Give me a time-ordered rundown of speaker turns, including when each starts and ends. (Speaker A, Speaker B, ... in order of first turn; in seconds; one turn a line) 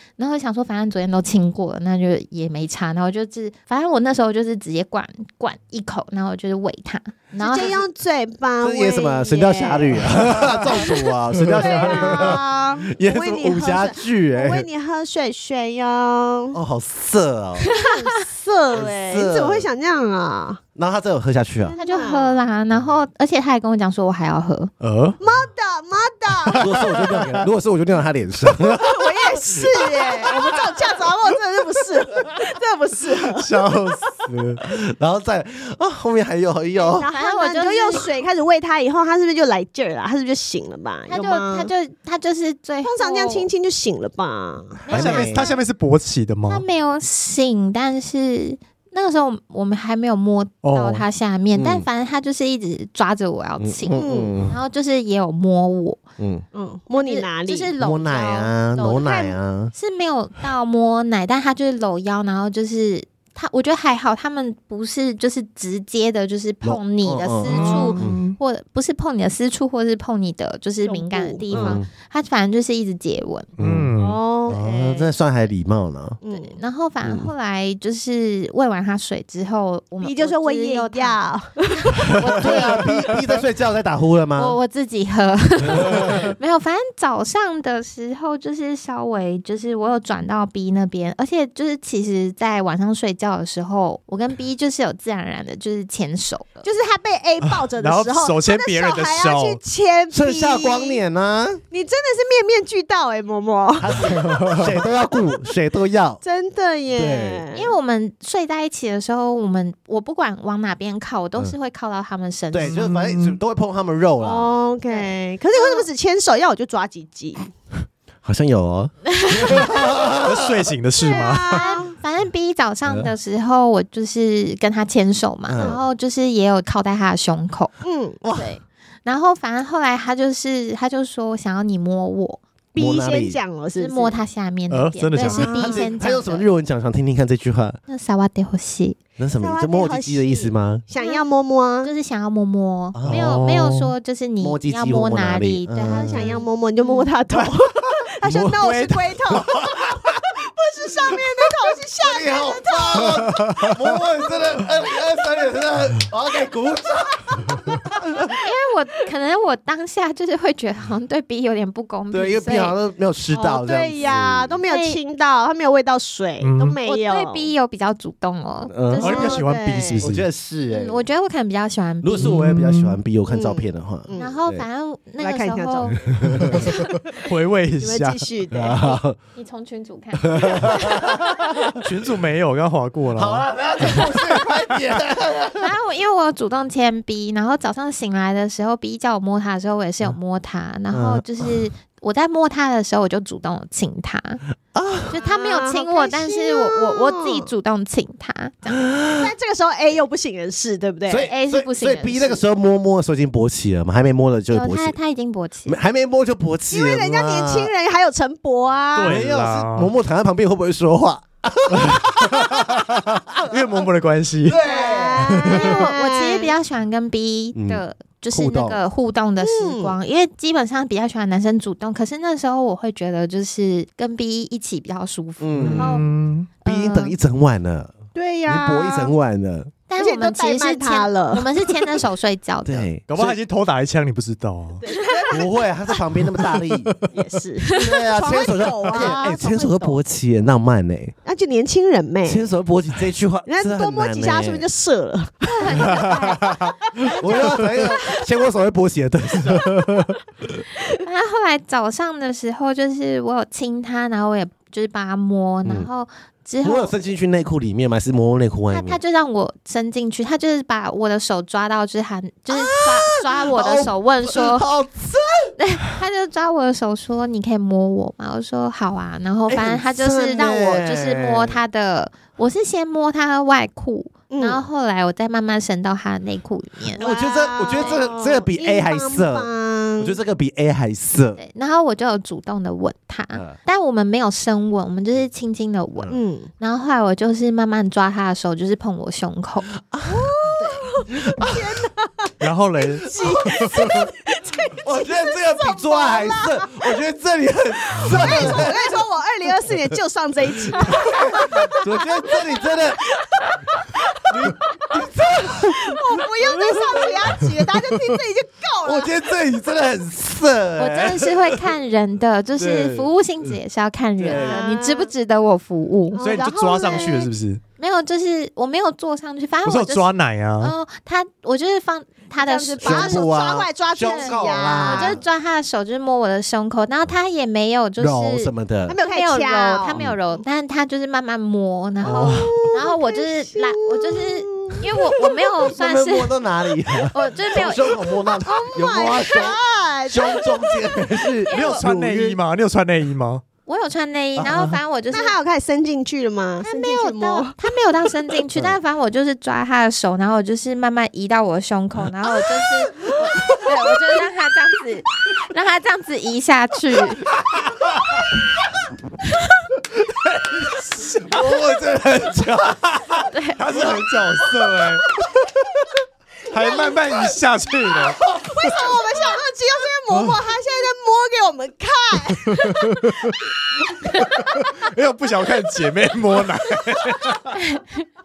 Speaker A: 0.2-7.8
Speaker B: 7.4-10.1
Speaker C: 8.6-14.7
Speaker D: 11.4-11.6
Speaker B: 11.6-16.6
Speaker C: 16.5-17.8
Speaker A: 17.7-18.1
Speaker B: 17.8-20.6
Speaker C: 18.7-19.7
Speaker C: 20.8-21.8
Speaker B: 21.6-22.4
Speaker A: 21.8-24.7
Speaker D: 24.8-25.2
Speaker B: 25.2-26.7
Speaker D: 26.4-27.4
Speaker C: 26.6-30.8
Speaker B: 28.7-33.5
Speaker D: 33.3-34.6
Speaker C: 34.6-37.1
Speaker B: 36.8-41.7
Speaker A: 37.1-38.1
Speaker A: 41.1-43.5
Speaker B: 42.8-44.9
Speaker A: 44.9-45.6
Speaker C: 44.9-45.5
Speaker D: 44.9-46.6
Speaker A: 46.5-56.0
Speaker D: 50.6-51.0
Speaker C: 51.5-51.9
Speaker C: 53.6-54.6
Speaker B: 54.0-54.4
Speaker C: 56.2-56.4
Speaker B: 56.5-57.7
Speaker A: 56.9-73.5
Speaker C: 57.8-59.7
Speaker C: 66.6-68.2
Speaker D: 67.5-68.4
Speaker B: 70.8-71.8
Speaker C: 71.5-71.9
Speaker C: 73.6-73.9
Speaker D: 73.6-74.2
Speaker B: 74.0-75.1
Speaker C: 74.5-76.2
Speaker B: 76.2-76.6
Speaker A: 76.3-81.2
Speaker C: 77.0-77.3
Speaker B: 80.0-82.3
Speaker A: 82.0-83.0
Speaker C: 82.3-84.6
Speaker A: 84.4-96.7
Speaker C: 85.7-86.3
Speaker B: 96.6-101.0
Speaker D: 97.8-99.6
Speaker C: 100.1-101.6
Speaker B: 101.7-105.0
Speaker C: 103.8-106.2
Speaker D: 104.3-104.6
Speaker B: 106.2-107.7
Speaker C: 106.9-107.5
Speaker A: 107.5-112.8
Speaker C: 112.5-114.5
Speaker D: 112.6-113.4
Speaker B: 114.2-117.5
Speaker A: 114.9-115.8
Speaker C: 118.2-120.7
Speaker A: 119.2-119.7
Speaker D: 119.9-121.6
Speaker B: 121.0-122.0
Speaker A: 121.1-127.7
Speaker C: 125.5-125.8
Speaker B: 127.8-128.2
Speaker C: 128.2-128.5
Speaker A: 128.3-132.4
Speaker B: 132.7-134.2
Speaker C: 132.8-133.4
Speaker A: 133.8-136.5
Speaker D: 134.7-135.6
Speaker B: 135.2-135.9
Speaker C: 135.4-137.8
Speaker A: 137.9-139.0
Speaker C: 139.2-140.8
Speaker B: 139.4-141.9
Speaker A: 141.0-141.3
Speaker A: 141.8-147.1
Speaker C: 142.9-143.8
Speaker D: 143.1-143.7
Speaker C: 144.4-146.4
Speaker B: 146.0-150.0
Speaker C: 148.1-150.2
Speaker B: 150.6-153.3
Speaker C: 152.0-158.4
Speaker A: 158.3-162.8
Speaker C: 162.1-164.6
Speaker B: 163.3-167.5
Speaker A: 164.7-165.0
Speaker D: 166.4-166.8
Speaker A: 166.8-169.4
Speaker C: 168.7-169.4
Speaker D: 169.0-170.2
Speaker B: 169.0-170.1
Speaker C: 170.0-171.0
Speaker A: 170.7-172.4
Speaker C: 172.0-174.7
Speaker D: 172.2-173.0
Speaker B: 173.3-174.3
Speaker A: 174.2-176.0
Speaker B: 175.2-176.0
Speaker C: 176.0-176.7
Speaker D: 176.2-178.2
Speaker B: 177.8-179.0
Speaker C: 178.5-179.2
Speaker A: 179.4-181.1
Speaker C: 180.3-181.7
Speaker D: 181.8-184.5
Speaker C: 183.2-185.7
Speaker A: 185.6-194.4
Speaker C: 190.9-191.6
Speaker C: 194.7-195.2
Speaker A: 195.1-198.8
Speaker B: 195.2-197.5
Speaker C: 198.7-199.3
Speaker B: 199.2-201.3
Speaker C: 201.1-205.0
Speaker A: 201.3-202.4
Speaker A: 204.5-205.8
Speaker C: 205.7-207.7
Speaker B: 206.7-209.2
Speaker D: 208.9-209.9
Speaker C: 209.1-213.6
Speaker D: 211.8-212.6
Speaker D: 213.4-214.6
Speaker C: 214.4-215.5
Speaker B: 214.6-216.5
Speaker A: 215.5-226.0
Speaker C: 217.6-218.8
Speaker B: 219.4-220.0
Speaker C: 225.4-226.1
Speaker D: 225.6-226.5
Speaker A: 226.6-227.2
Speaker C: 226.7-227.9
Speaker B: 228.2-229.1
Speaker C: 228.5-229.7
Speaker A: 229.9-232.9
Speaker B: 230.0-231.7
Speaker C: 232.7-233.4
Speaker D: 233.1-234.8
Speaker B: 234.8-235.5
Speaker C: 235.3-236.9
Speaker B: 237.1-240.0
Speaker C: 237.8-241.2
Speaker B: 241.2-242.5
Speaker C: 242.2-244.7
Speaker B: 243.5-248.2
Speaker A: 245.5-247.7
Speaker C: 247.2-250.1
Speaker A: 251.0-256.9
Speaker C: 256.6-259.0
Speaker A: 258.7-264.7
Speaker C: 262.5-265.6
Speaker A: 265.6-277.1
Speaker C: 269.5-271.6
Speaker B: 274.3-274.6
Speaker B: 277.0-280.2
Speaker C: 277.0-281.4
Speaker A: 281.4-289.7
Speaker B: 286.1-286.5
Speaker C: 289.9-290.5
Speaker B: 290.1-292.3
Speaker A: 290.6-290.9
Speaker C: 291.1-291.9
Speaker D: 292.4-293.9
Speaker B: 293.0-297.0
Speaker C: 293.2-294.1
Speaker C: 294.8-299.0
Speaker B: 297.9-309.1
Speaker C: 300.8-303.0
Speaker C: 304.3-305.8
Speaker C: 308.8-311.6
Speaker A: 310.8-316.2
Speaker C: 312.6-313.5
Speaker C: 314.2-314.6
Speaker B: 314.3-315.1
Speaker B: 316.1-317.3
Speaker D: 316.2-317.6
Speaker A: 317.8-320.1
Speaker D: 319.6-320.7
Speaker A: 320.6-323.3
Speaker B: 322.3-325.2
Speaker C: 322.8-325.2
Speaker A: 324.1-336.4
Speaker C: 328.0-329.0
Speaker B: 328.9-330.0
Speaker D: 332.0-332.6
Speaker B: 332.1-334.9
Speaker C: 335.7-342.4
Speaker A: 337.1-338.1
Speaker B: 338.3-341.0
Speaker A: 341.5-341.9
Speaker D: 341.5-343.4
Speaker A: 343.7-345.4
Speaker B: 345.1-347.6
Speaker A: 346.6-357.3
Speaker C: 357.3-358.2
Speaker C: 360.6-365.4
Speaker A: 363.3-363.6
Speaker D: 363.6-365.1
Speaker D: 366.5-368.3
Speaker B: 366.6-366.9
Speaker C: 368.3-368.7
Speaker B: 368.3-372.9
Speaker D: 370.1-370.4
Speaker D: 372.4-373.4
Speaker D: 374.1-377.6
Speaker A: 377.6-378.1